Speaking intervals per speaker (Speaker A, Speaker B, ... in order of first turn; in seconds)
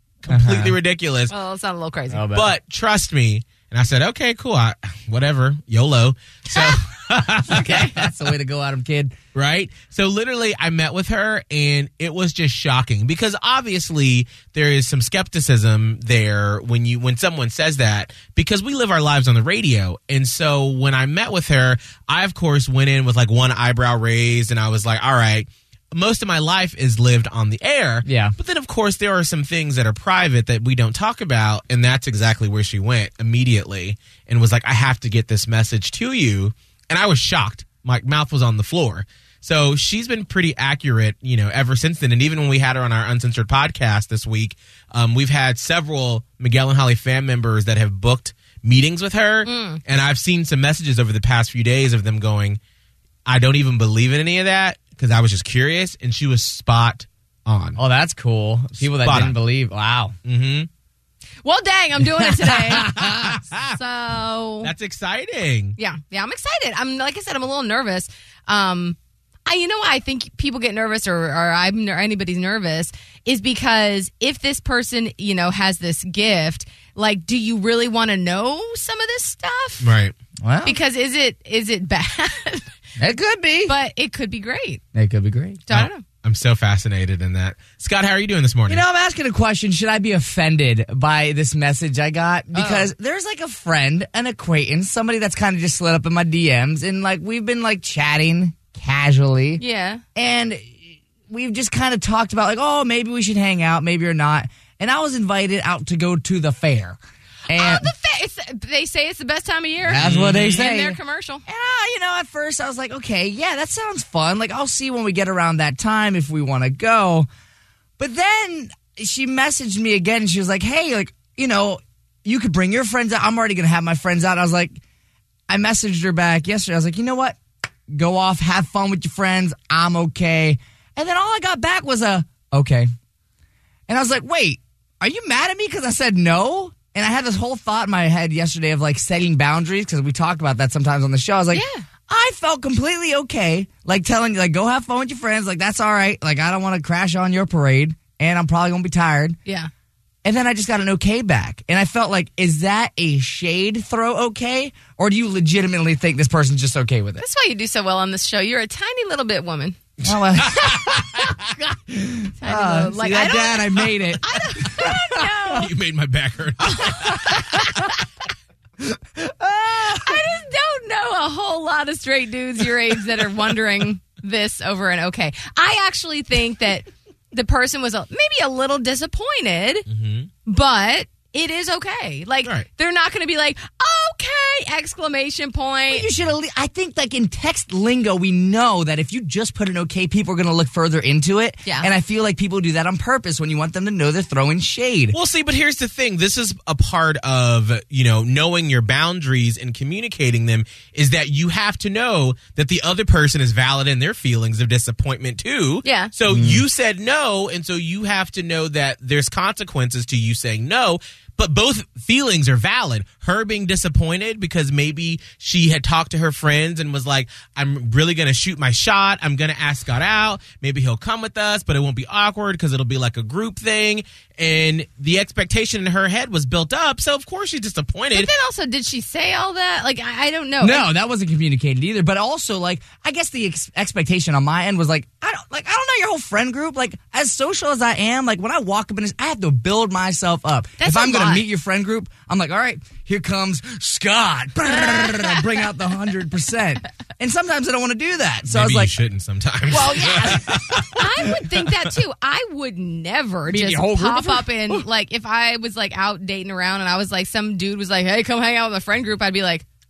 Speaker A: 0.2-1.3, 2.3-8.0, 9.3-52.6, 53.2-57.8, 58.8-59.4, 60.2-60.7, 63.0-63.8, 64.6-65.8, 79.8-80.1, 85.7-88.8, 110.0-110.6, 160.0-161.3, 165.5-167.2, 179.9-180.3, 195.1-228.3, 248.5-251.3
Speaker B: 0.3-0.7, 2.1-2.5, 7.4-9.1, 28.0-28.3, 57.8-60.1, 62.0-63.4, 80.4-80.8, 83.0-83.7, 84.9-85.7, 88.7-99.6, 100.1-107.9, 109.8-117.3, 118.0-124.8, 125.5-127.3, 127.9-132.9, 133.9-149.4, 150.2-157.2, 160.0-165.4, 167.2-167.8, 168.8-170.2, 185.9-195.1, 206.3-206.6, 230.6-248.9, 250.0-250.3, 253.4-254.8
Speaker C: 1.3-2.2, 6.5-6.8, 7.5-7.9, 49.4-49.8, 61.4-63.1, 63.7-64.7, 65.8-79.9, 80.6-82.7, 83.7-84.8, 85.7-86.0, 92.5-92.9, 99.6-100.0, 107.5-111.4, 141.5-141.8, 157.2-159.8, 162.4-165.7, 166.8-167.8, 170.0-179.8, 180.4-186.1, 191.6-191.9, 205.8-206.1, 228.1-230.9, 240.8-241.4, 249.7-259.6